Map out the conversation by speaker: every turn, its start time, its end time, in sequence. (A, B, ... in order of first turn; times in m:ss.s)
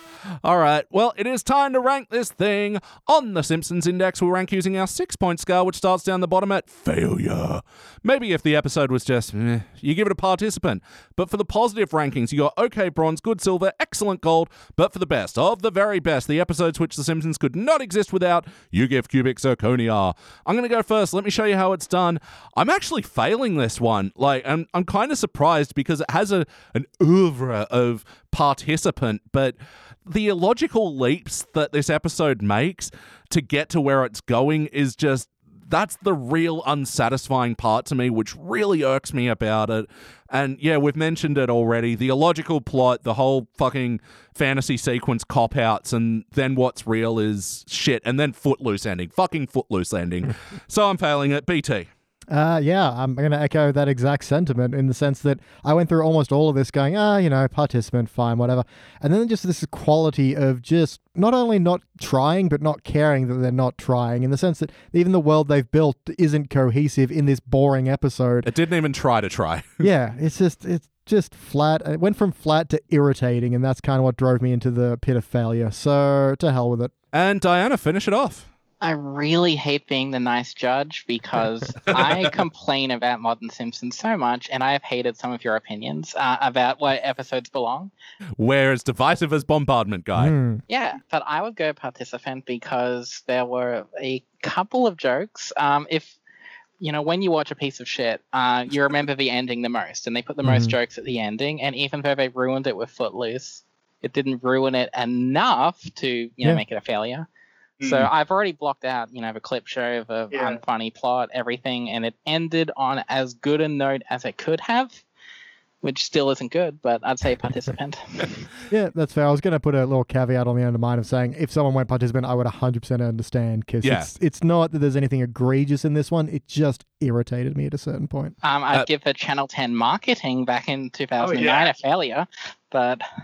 0:00.4-0:51.9 A
0:52.3-1:08.5 B
1:08.4-1:09.8 A
1:09.8-1:16.9 B
1:17.1-1:18.5 A
1:18.8-1:27.9 C
1:28.4-1:30.3 A
1:30.2-1:30.6 B
1:30.7-1:36.2 C
1:36.8-1:47.3 C
1:40.4-1:40.7 B
1:47.8-1:48.1 A
1:47.8-1:55.0 C
1:55.8-1:58.4 C
1:58.7-2:08.3 B
2:03.8-2:04.1 A
2:08.4-2:13.0 C
2:11.4-2:11.7 A